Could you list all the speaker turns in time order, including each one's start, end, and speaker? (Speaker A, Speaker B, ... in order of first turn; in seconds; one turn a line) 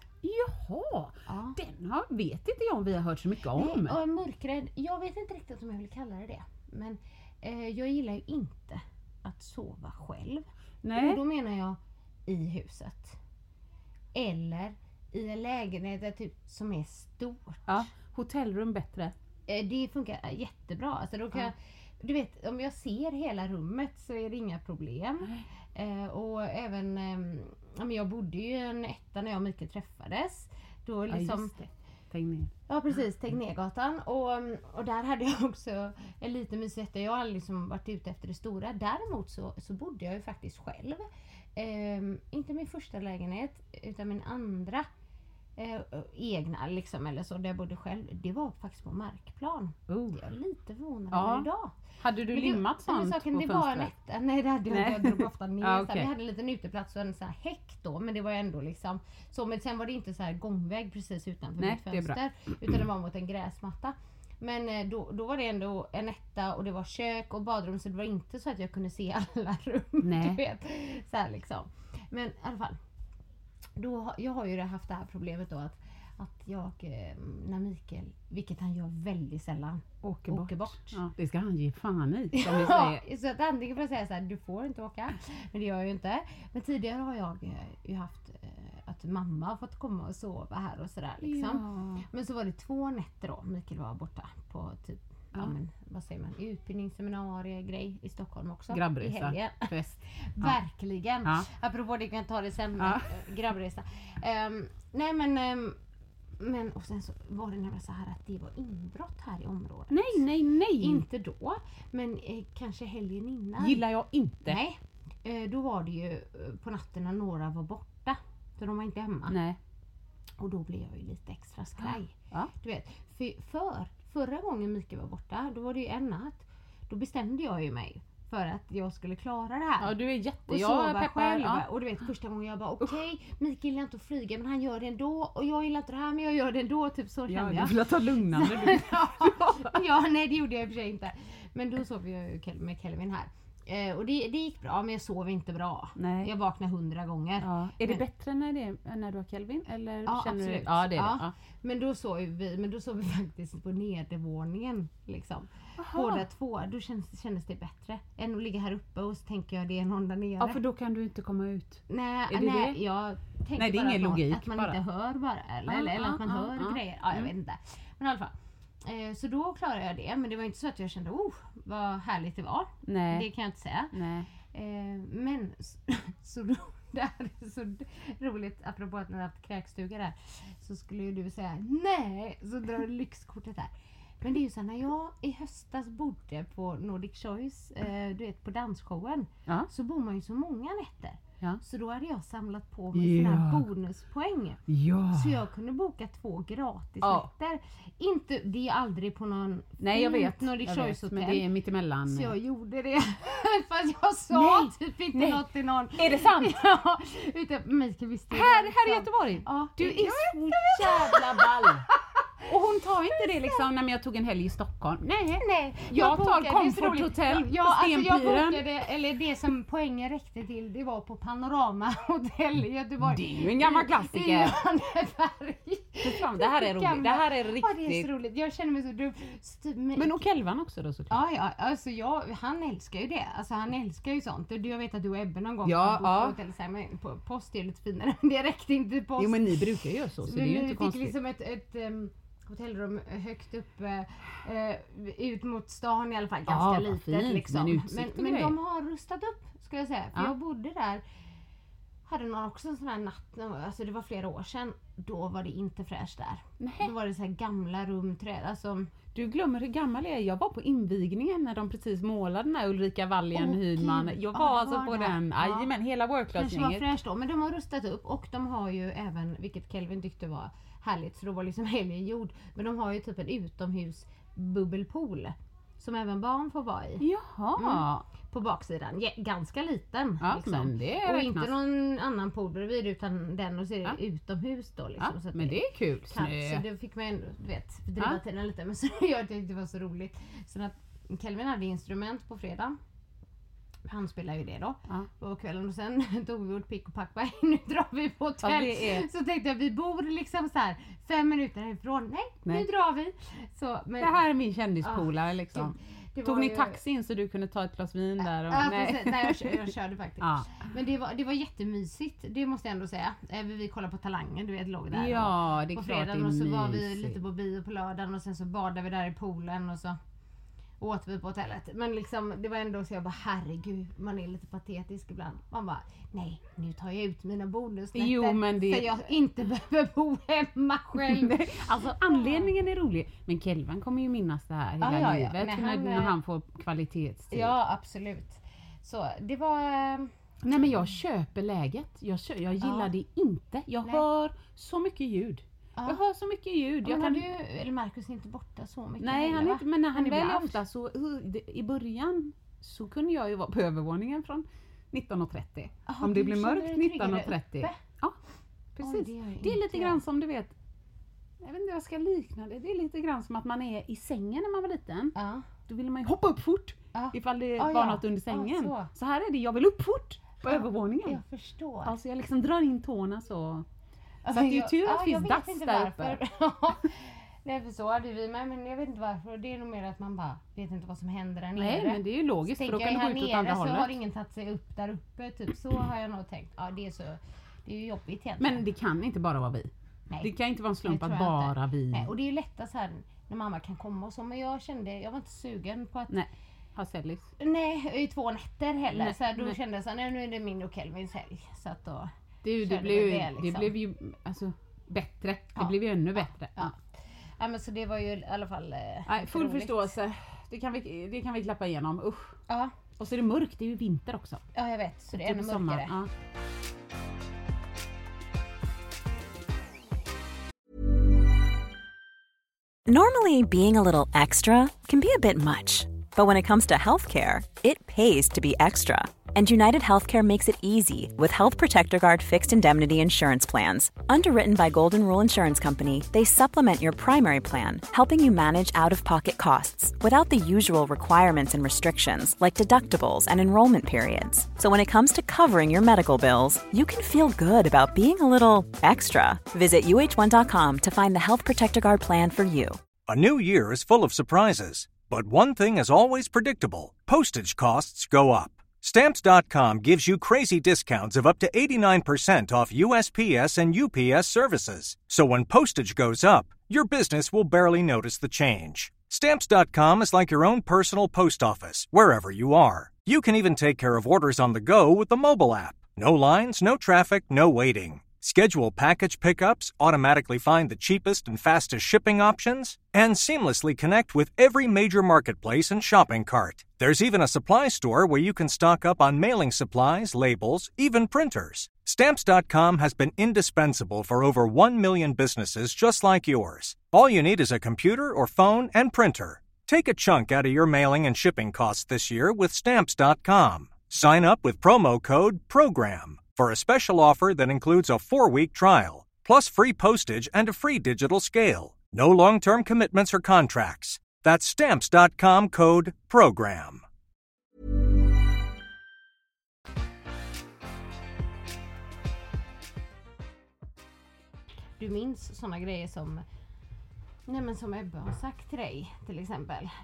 Speaker A: 0.2-4.0
Speaker B: 1.3-1.6
Speaker B: 3.5-13.2
Speaker A: 10.8-11.2
Speaker B: 14.2-17.9
Speaker A: 17.7-19.1
Speaker B: 19.5-31.6
Speaker A: 31.1-32.5
Speaker B: 32.7-44.9
Speaker B: 45.6-51.8
Speaker A: 49.9-50.2
Speaker A: 51.1-51.5
Speaker A: 52.0-53.9
Speaker B: 52.3-72.8
Speaker A: 54.7-56.1
Speaker A: 61.6-62.2
Speaker A: 70.0-70.4
Speaker B: 73.8-81.0
Speaker A: 80.0-83.0
Speaker B: 82.3-105.8
Speaker A: 91.2-92.0
Speaker A: 98.7-100.6
Speaker A: 102.8-103.1
Speaker B: 106.4-110.3
Speaker A: 109.9-111.0
Speaker B: 110.8-113.8
Speaker A: 113.6-114.6
Speaker B: 114.5-119.4
Speaker A: 119.3-119.6
Speaker B: 120.4-129.9
Speaker A: 121.8-122.5
Speaker A: 129.8-131.7
Speaker B: 130.5-148.0
Speaker A: 137.3-139.7
Speaker A: 146.0-146.3
Speaker A: 147.4-151.3
Speaker B: 150.1-160.6
Speaker A: 155.8-156.3
Speaker A: 160.4-162.8
Speaker B: 161.9-201.5
Speaker A: 163.6-164.8
Speaker A: 165.7-167.3
Speaker A: 172.8-173.3
Speaker A: 173.9-174.3
Speaker A: 192.9-193.7
Speaker A: 194.7-195.4
Speaker A: 197.0-197.3
Speaker A: 199.8-202.3
Speaker B: 202.1-211.9
Speaker A: 204.3-205.4
Speaker A: 206.0-206.6
Speaker A: 208.3-211.9
Speaker A: 212.4-218.7
Speaker B: 215.4-230.2
Speaker A: 223.0-224.5
Speaker A: 226.0-228.1
Speaker A: 230.0-231.1
Speaker B: 231.1-251.0
Speaker A: 235.6-236.4
Speaker A: 239.2-241.2
Speaker A: 246.5-248.6
Speaker B: 252.1-258.9
Speaker A: 256.6-256.9
Speaker A: 259.1-266.9
Speaker B: 263.3-265.7
Speaker B: 266.3-277.1
Speaker A: 277.0-278.1
Speaker B: 277.6-292.8
Speaker A: 280.2-281.5
Speaker A: 285.0-286.6
Speaker B: 293.9-304.2
Speaker A: 298.4-299.1
Speaker A: 304.0-310.7
Speaker B: 304.8-306.8
Speaker B: 308.5-320.0
Speaker A: 314.9-317.2
Speaker B: 320.8-332.5
Speaker A: 327.9-328.9
Speaker A: 331.0-337.5
Speaker B: 334.8-336.1
Speaker B: 337.3-340.1
Speaker A: 340.4-347.3
Speaker B: 342.6-342.9
Speaker B: 345.8-346.0
Speaker B: 346.8-350.6
Speaker A: 349.0-358.2
Speaker B: 355.9-357.8
Speaker A: 358.8-360.5
Speaker B: 358.8-360.0
Speaker A: 361.4-365.1
Speaker B: 365.1-365.5
Speaker A: 365.7-371.2
Speaker B: 366.9-368.9
Speaker B: 370.4-372.0
Speaker A: 371.9-373.7
Speaker B: 374.3-388.6
Speaker A: 374.3-376.2
Speaker A: 381.6-384.0
Speaker A: 388.4-392.1
Speaker B: 390.8-396.2
Speaker A: 396.1-397.3
Speaker B: 397.4-403.7
Speaker A: 398.9-399.6
Speaker A: 402.4-406.8
Speaker B: 405.6-406.8
Speaker B: 407.4-409.9
Speaker A: 409.1-412.4
Speaker A: 413.0-414.4
Speaker B: 414.5-416.0
Speaker A: 415.1-416.1
Speaker C: 422.9-452.8
Speaker D: 453.1-516.8
Speaker B: 524.8-526.2
Speaker B: 527.3-529.7